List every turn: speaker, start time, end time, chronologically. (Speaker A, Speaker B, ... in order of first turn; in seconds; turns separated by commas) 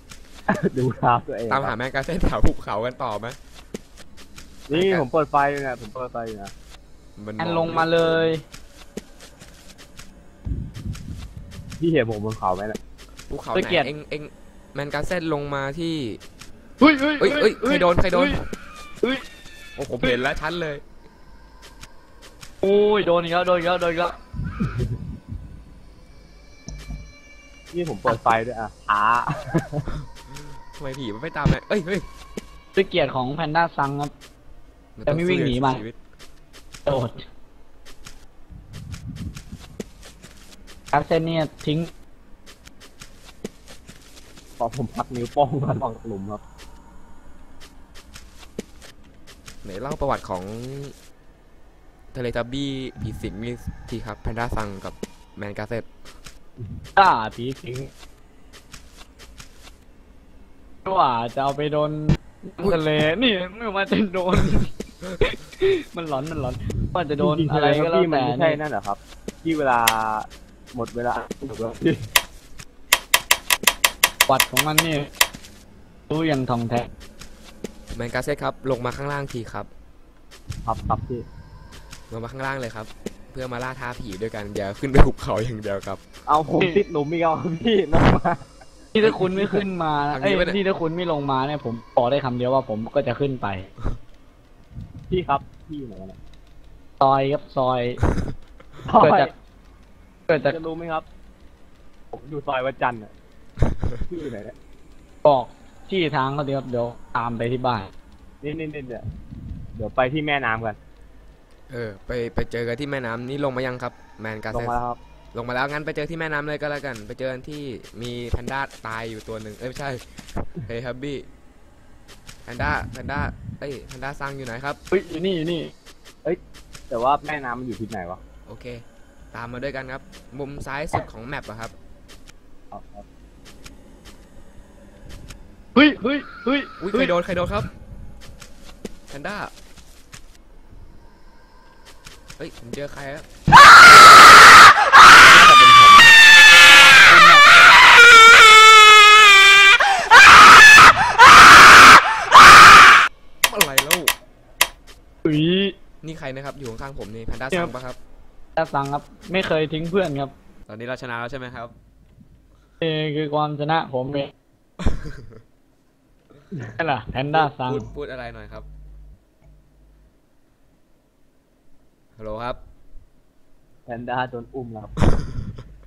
Speaker A: 0.5-1.8, Speaker B: 1.5-3.4, Speaker A: 4.7-6.5, Speaker B: 4.7-5.1, Speaker B: 7.2-8.3, Speaker C: 7.4-8.4, Speaker A: 11.8-12.8, Speaker B: 13.3-16.2, Speaker C: 13.5-13.9, Speaker C: 16.8-18.4, Speaker B: 17.2-18.4, Speaker B: 19.8-20.8, Speaker C: 22.6-24.2, Speaker A: 27.7-29.9, Speaker B: 30.8-32.0, Speaker C: 32.8-34.1, Speaker B: 35.0-36.0, Speaker C: 35.1-35.8, Speaker C: 36.9-37.2, Speaker C: 40.9-41.9, Speaker A: 44.6-46.4, Speaker B: 49.6-50.9, Speaker B: 52.1-55.9, Speaker C: 57.0-57.9, Speaker C: 60.9-68.6, Speaker A: 67.2-72.0, Speaker C: 74.3-75.1, Speaker C: 76.1-76.9, Speaker B: 77.9-79.7, Speaker A: 80.6-81.3, Speaker B: 82.1-86.0, Speaker A: 86.3-88.5, Speaker C: 88.9-93.7, Speaker B: 89.0-90.6, Speaker A: 95.1-96.2, Speaker C: 97.0-98.0, Speaker A: 98.8-99.3, Speaker C: 99.0-99.3, Speaker C: 100.3-100.6, Speaker A: 100.4-101.1, Speaker A: 102.1-103.1, Speaker A: 104.1-104.5, Speaker C: 105.2-107.9, Speaker A: 108.4-109.0, Speaker A: 109.8-110.8, Speaker B: 111.7-114.8, Speaker A: 114.5-115.0, Speaker B: 115.3-121.3, Speaker B: 122.5-124.8, Speaker C: 124.9-125.7, Speaker A: 126.2-128.2, Speaker B: 128.5-128.8, Speaker B: 129.3-131.7, Speaker A: 132.7-133.0, Speaker C: 135.8-137.1, Speaker B: 136.8-137.7, Speaker B: 139.1-139.5, Speaker B: 142.4-143.3, Speaker A: 145.3-146.1, Speaker C: 147.0-147.4, Speaker B: 153.5-154.1, Speaker C: 155.2-155.7, Speaker B: 156.0-158.0, Speaker C: 158.6-160.3, Speaker B: 160.7-161.7, Speaker C: 162.8-164.3, Speaker B: 164.8-165.3, Speaker C: 166.8-167.9, Speaker B: 167.3-168.7, Speaker B: 172.2-172.6, Speaker A: 173.9-174.9